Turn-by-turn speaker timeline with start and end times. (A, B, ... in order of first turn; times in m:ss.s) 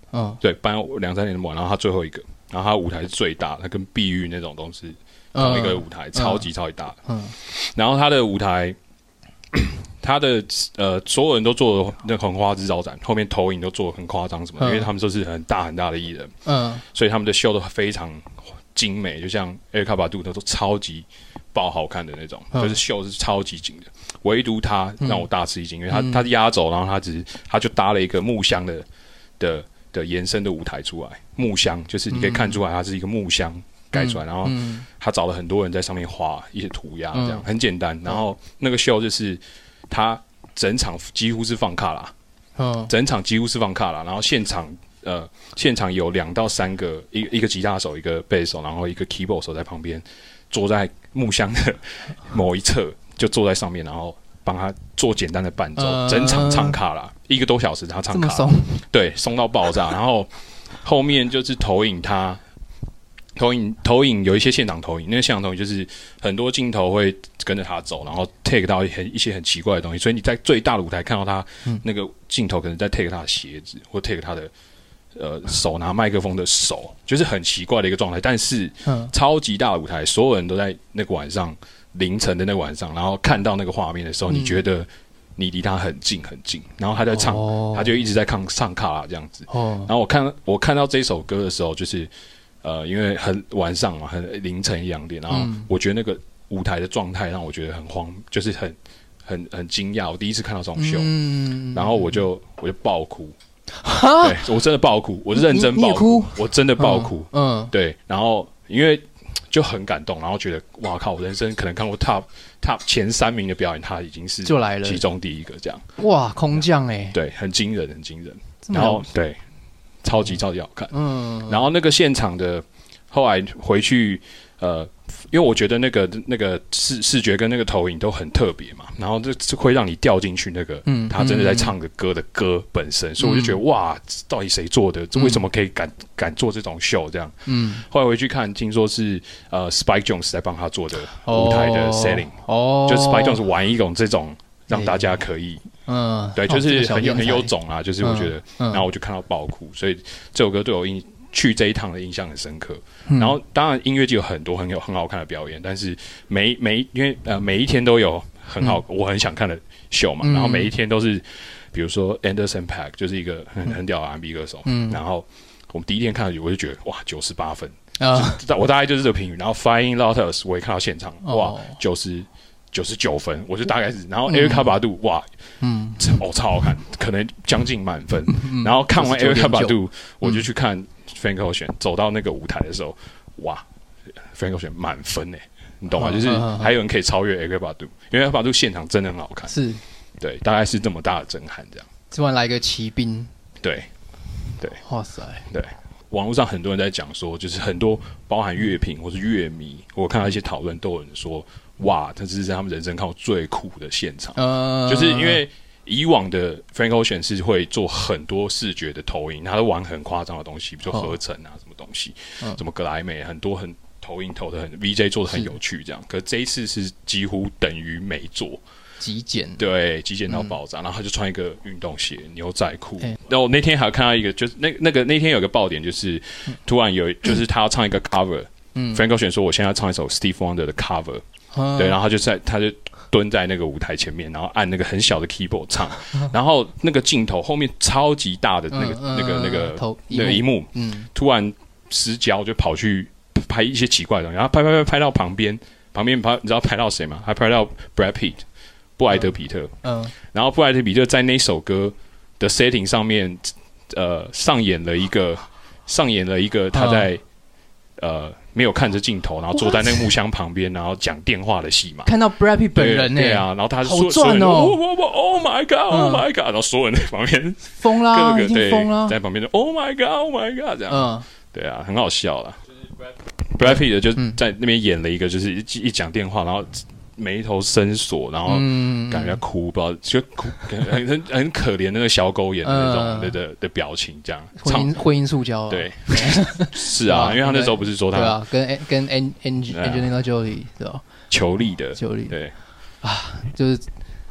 0:00.1-0:00.4 A
0:00.4-0:08.8 B
0:05.3-0:06.4 A
0:07.1-0:07.3 A
0:09.5-0:28.8 B
0:14.6-0:14.9 A
0:16.4-0:16.8 A
0:25.0-0:25.2 A
0:25.9-0:26.2 A
0:29.4-0:42.1 B
0:32.1-0:32.6 A
0:33.9-0:34.8 A
0:37.1-0:37.4 A
0:42.6-0:42.9 A
0:42.9-1:00.3 B
0:55.8-0:56.8 A
0:58.1-0:58.7 A
1:00.8-1:02.4 B
1:03.4-1:14.5 B
1:15.1-1:32.1 B
1:18.8-1:19.1 A
1:24.3-1:24.6 A
1:27.1-1:27.9 A
1:29.5-1:29.9 A
1:32.6-1:41.1 B
1:35.3-1:35.7 A
1:40.8-1:42.2 A
1:41.7-1:43.3 B
1:43.8-1:44.4 A
1:44.2-1:55.8 B
1:45.3-1:47.7 A
1:54.4-1:55.0 A
1:56.0-1:57.2 A
1:57.1-1:59.4 B
1:58.7-1:59.0 A
2:00.0-2:00.9 B
2:00.9-2:01.6 A
2:01.4-2:25.6 B
2:10.8-2:11.7 A
2:13.2-2:13.6 A
2:15.2-2:15.4 A
2:17.4-2:17.8 A
2:21.2-2:23.4 A
2:24.7-2:25.1 A
2:25.8-2:27.5 A
2:26.4-2:55.2 B
2:28.0-2:28.8 A
2:33.1-2:33.3 A
2:40.2-2:40.7 A
2:44.6-2:45.0 A
2:48.0-2:48.4 A
2:51.2-2:51.7 A
2:54.3-2:54.7 A
2:55.6-2:56.2 A
2:56.0-3:03.6 B
2:58.3-3:00.4 A
3:04.3-3:09.6 B
3:05.9-3:06.7 A
3:09.5-3:09.8 A
3:10.2-3:11.8 B
3:12.1-3:13.3 A
3:13.6-3:13.9 B
3:14.8-3:15.4 A
3:15.5-3:38.6 B
3:24.4-3:25.4 A
3:39.0-3:39.6 A
3:39.6-3:51.2 B
3:40.3-3:40.5 A
3:48.7-3:49.0 A
3:51.5-3:51.9 A
3:51.8-4:08.4 B
3:58.7-4:01.1 A
4:09.0-4:09.7 B
4:09.8-4:10.1 A
4:10.3-4:17.2 B
4:16.7-4:17.0 A
4:18.0-4:22.1 B
4:19.6-4:20.0 A
4:22.0-4:24.8 A
4:22.7-4:32.6 B
4:25.9-4:26.2 A
4:27.8-4:29.1 A
4:30.9-4:31.2 A
4:33.6-4:44.9 B
4:33.7-4:34.4 A
4:38.5-4:39.4 A
4:42.6-4:43.3 A
4:44.6-4:51.0 A
4:45.7-4:48.4 B
4:49.7-4:50.1 B
4:51.3-4:52.5 B
4:52.0-4:52.3 A
4:53.0-4:53.8 A